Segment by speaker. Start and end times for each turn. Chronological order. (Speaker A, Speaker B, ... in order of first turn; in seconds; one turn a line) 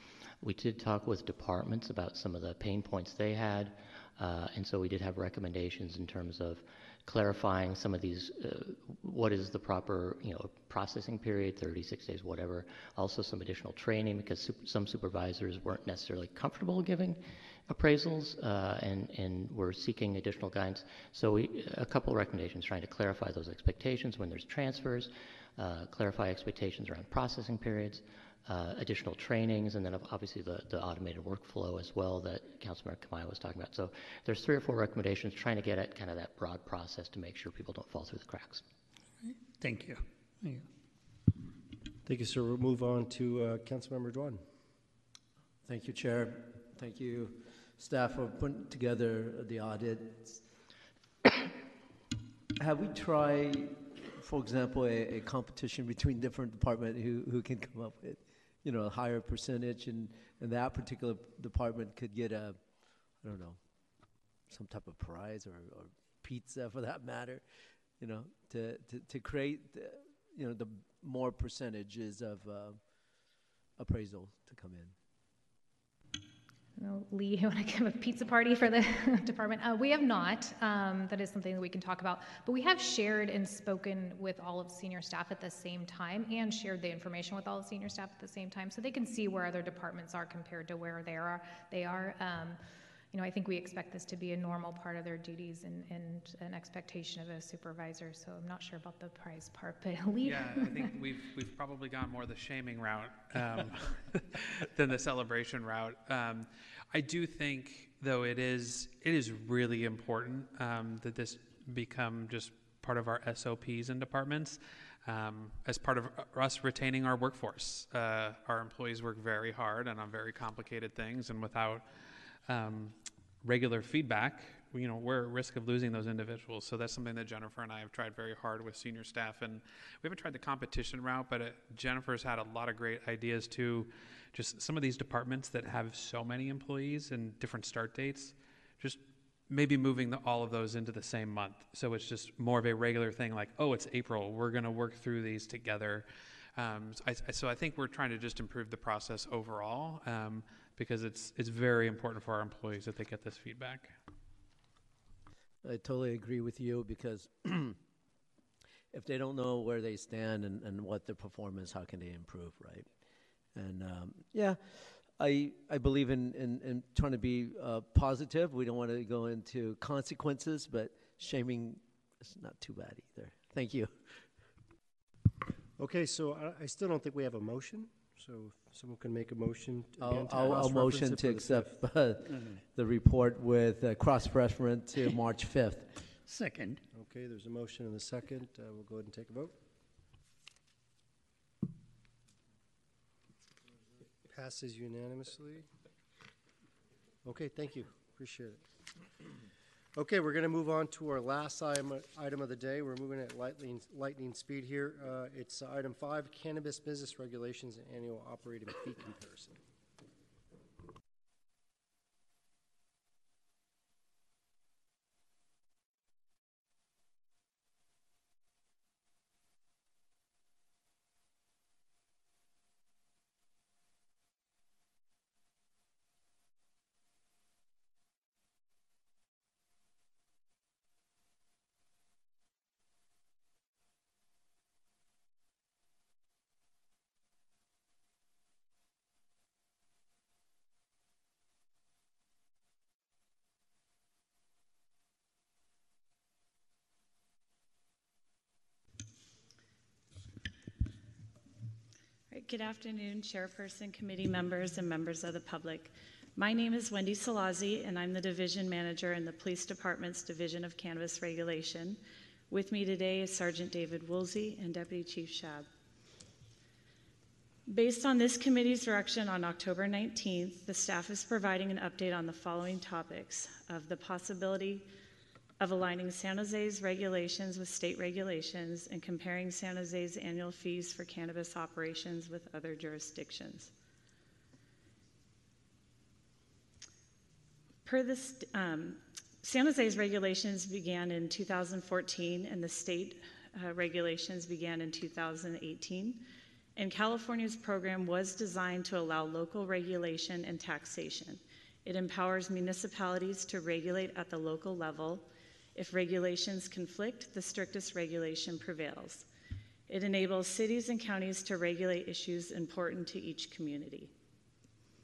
Speaker A: 0.4-38.6
Speaker B: 39.2-40.6
Speaker C: 42.0-44.4
Speaker D: 45.6-50.4
Speaker D: 52.6-62.6
Speaker D: 63.2-63.6
Speaker D: 64.5-72.8
Speaker D: 73.8-74.9
Speaker E: 76.8-92.6
Speaker E: 93.1-100.9
Speaker F: 100.2-121.9
Speaker F: 122.5-154.0
Speaker D: 155.6-157.8
Speaker D: 158.9-162.9
Speaker D: 163.5-174.3
Speaker C: 175.8-181.7
Speaker D: 180.0-185.9
Speaker B: 186.2-186.8
Speaker C: 186.9-189.6
Speaker C: 194.3-195.7
Speaker C: 197.2-198.6
Speaker C: 200.0-209.6
Speaker G: 252.3-265.7
Speaker G: 267.7-274.9
Speaker G: 275.6-283.7
Speaker G: 287.9-296.2
Speaker G: 296.8-309.3
Speaker G: 309.9-314.1